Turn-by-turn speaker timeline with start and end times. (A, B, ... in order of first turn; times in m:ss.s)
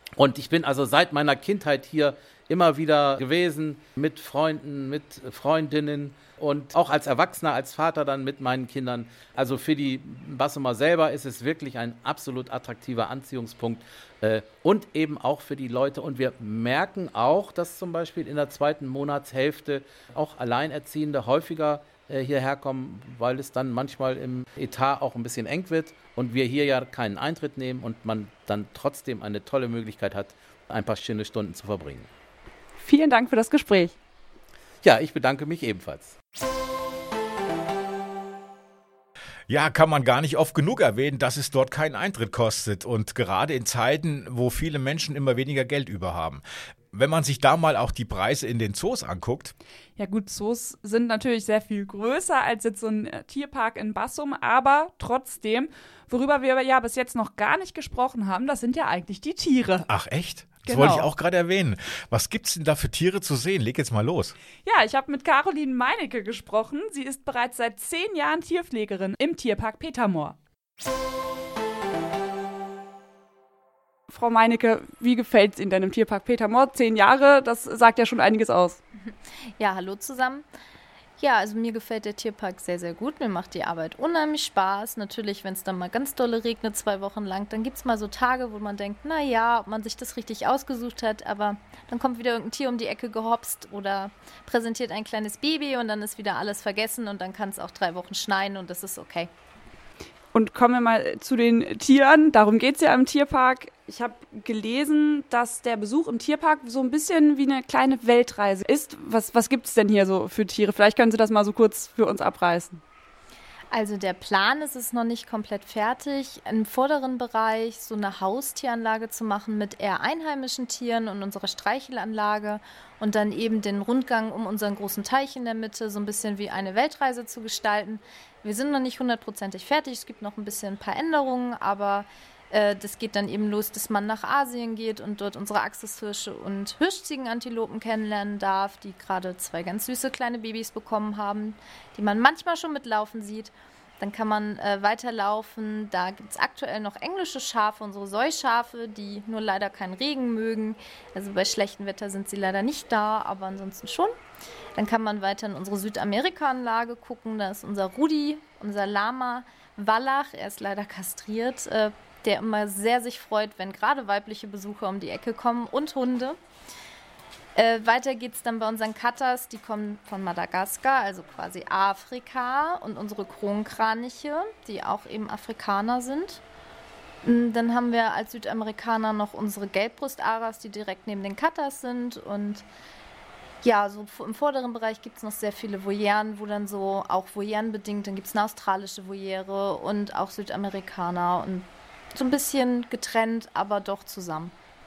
0:00.2-0:32.1 A
0:32.8-0:33.9 B
0:34.8-0:36.2 A
0:39.5-0:49.5 C
0:50.0-0:59.9 D
0:59.9-1:04.4 C
1:00.6-1:01.1 D
1:04.6-1:10.4 D
1:14.1-1:18.8 B
1:19.1-1:20.4 E
1:21.2-1:39.3 E
1:40.3-1:52.8 B
1:53.7-2:34.1 E
2:34.8-2:46.4 E
2:47.6-2:56.4 E
2:57.2-3:02.7 E
3:03.6-3:14.5 E